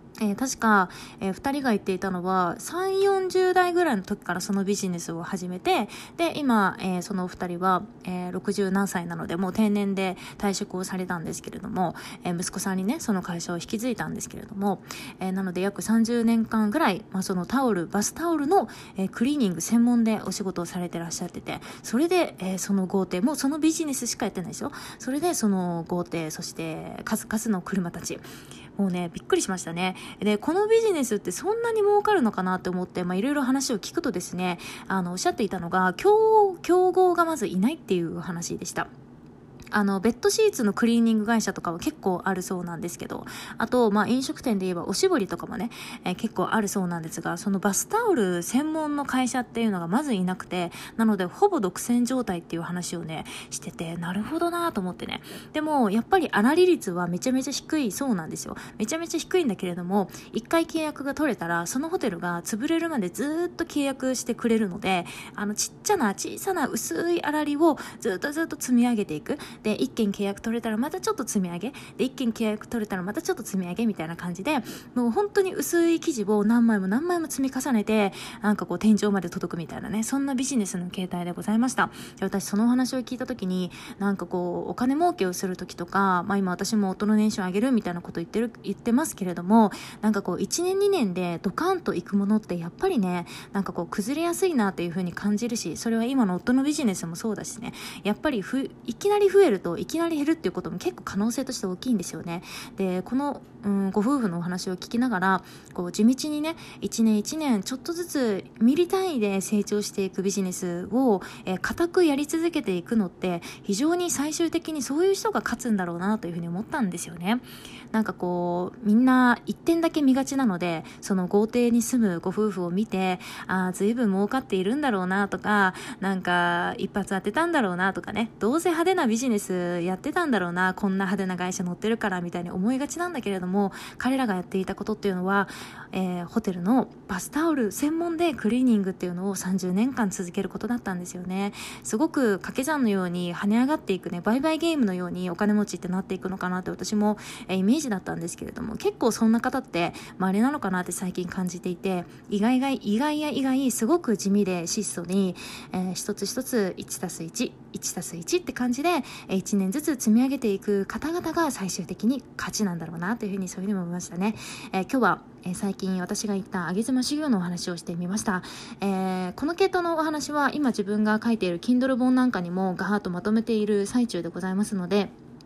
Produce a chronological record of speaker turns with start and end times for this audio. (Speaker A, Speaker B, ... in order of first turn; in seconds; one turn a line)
Speaker A: 0.2-28.2
Speaker A: 28.8-38.9
Speaker A: 39.7-175.1